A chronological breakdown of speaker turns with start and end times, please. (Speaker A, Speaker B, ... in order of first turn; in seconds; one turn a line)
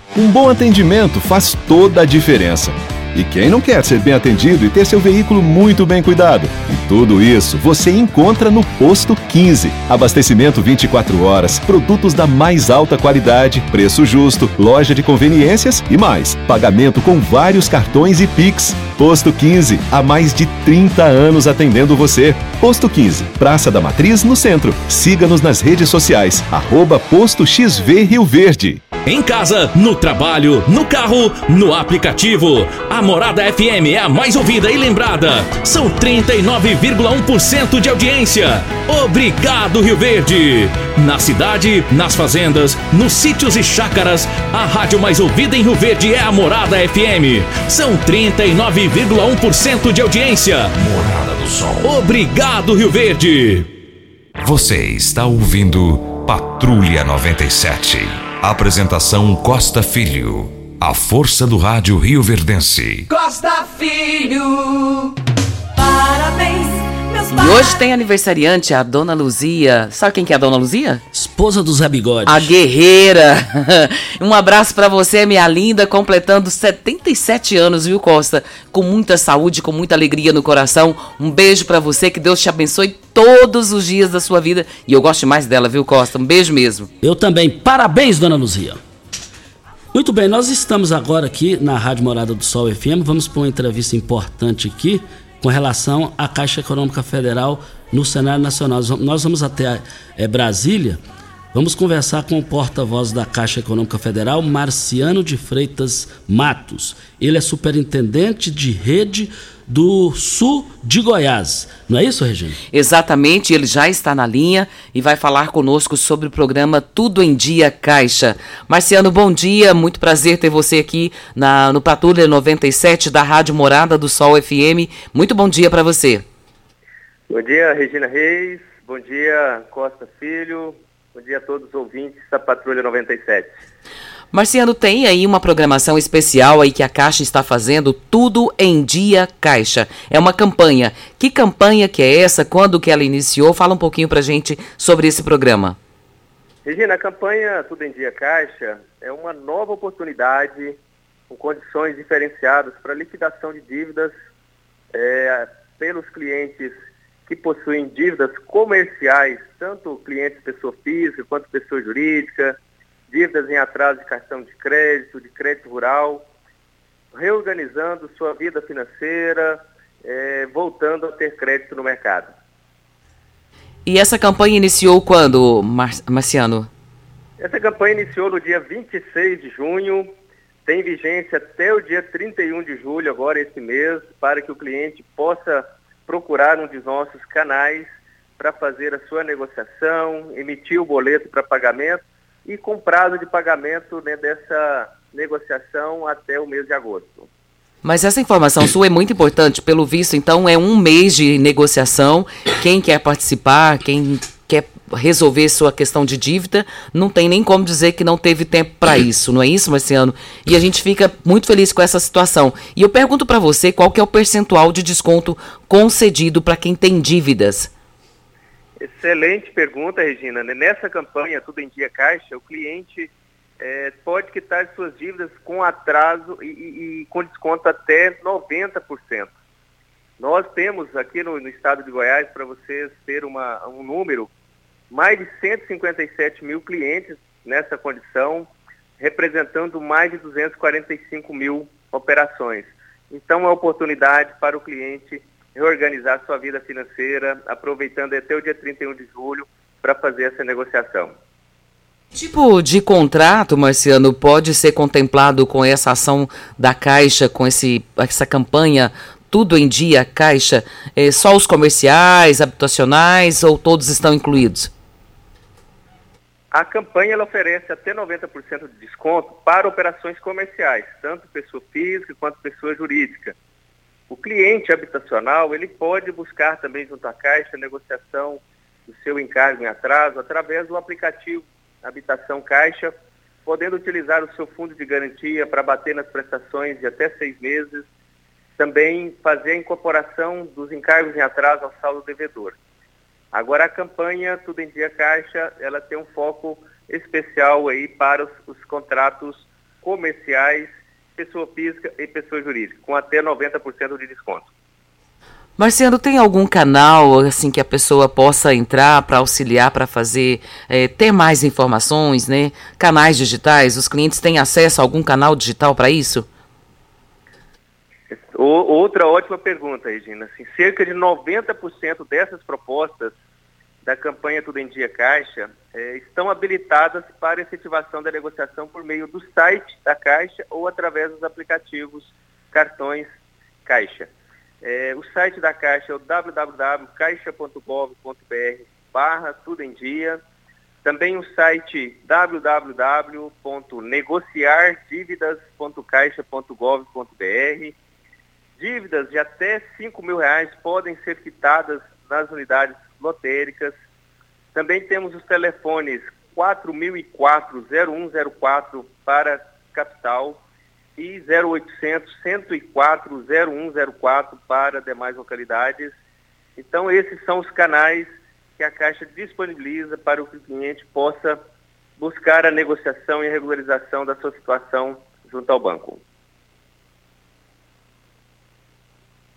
Speaker A: 0.1-28.8
Speaker B: 29.1-50.7
Speaker C: 50.8-51.9
Speaker B: 51.8-53.7
Speaker C: 54.4-63.1
Speaker D: 63.1-65.1
Speaker D: 65.8-67.7
Speaker E: 67.3-71.0
Speaker F: 71.1-72.5
Speaker E: 72.2-86.9
Speaker F: 87.0-88.8
Speaker F: 89.9-101.0
Speaker F: 101.5-112.6
Speaker E: 112.7-126.2
Speaker G: 127.3-133.5
Speaker E: 134.3-145.8
Speaker G: 146.6-150.8
Speaker G: 151.3-154.1
Speaker G: 154.9-156.7
Speaker G: 157.3-162.6
Speaker G: 163.1-166.2
Speaker G: 167.1-172.3
Speaker E: 173.8-176.7
Speaker G: 177.4-180.1
Speaker G: 180.7-187.9
Speaker G: 188.4-197.3
Speaker E: 197.8-217.7
Speaker G: 218.8-223.1
Speaker G: 223.6-229.3
Speaker G: 230.2-234.3
Speaker G: 234.9-238.5
Speaker G: 239.0-251.1
Speaker E: 252.2-264.7
Speaker G: 266.5-273.3
Speaker G: 274.1-282.9
Speaker G: 283.4-287.8
Speaker G: 288.6-292.6
Speaker G: 293.3-304.5
Speaker E: 305.6-316.2
Speaker G: 318.1-323.1
Speaker G: 323.8-333.1
Speaker G: 333.6-334.1
Speaker G: 334.6-340.2
Speaker G: 340.8-347.7
Speaker G: 348.6-353.7
Speaker G: 354.5-360.4
Speaker G: 361.0-365.9
Speaker G: 366.6-371.4
Speaker G: 372.0-376.0